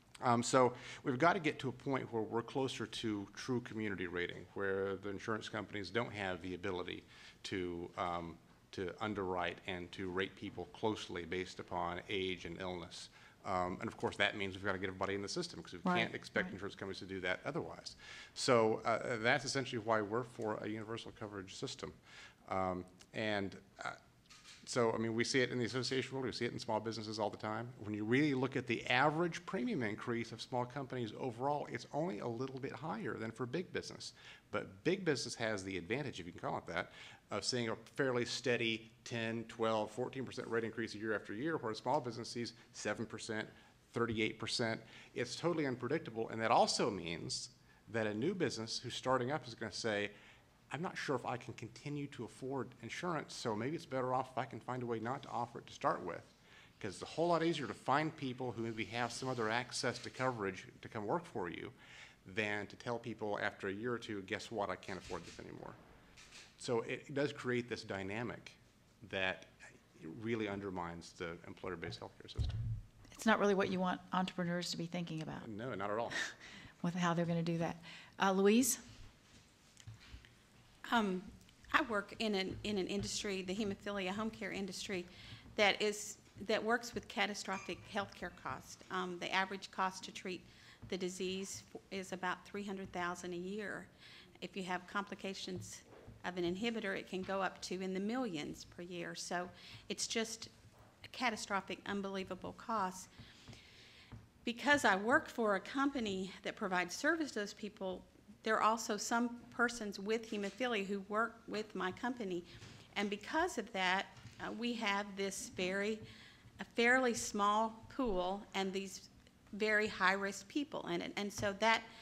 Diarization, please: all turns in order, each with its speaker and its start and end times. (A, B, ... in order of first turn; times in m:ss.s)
0:00.2-0:24.0 A
0:15.8-0:16.5 B
0:24.6-0:50.1 A
0:50.7-1:05.8 A
1:06.6-1:12.6 A
1:13.1-1:15.5 B
1:15.4-1:16.2 A
1:16.8-1:18.8 B
1:20.8-1:40.5 C
1:41.0-1:43.1 C
1:44.4-1:56.0 C
1:56.6-2:01.9 C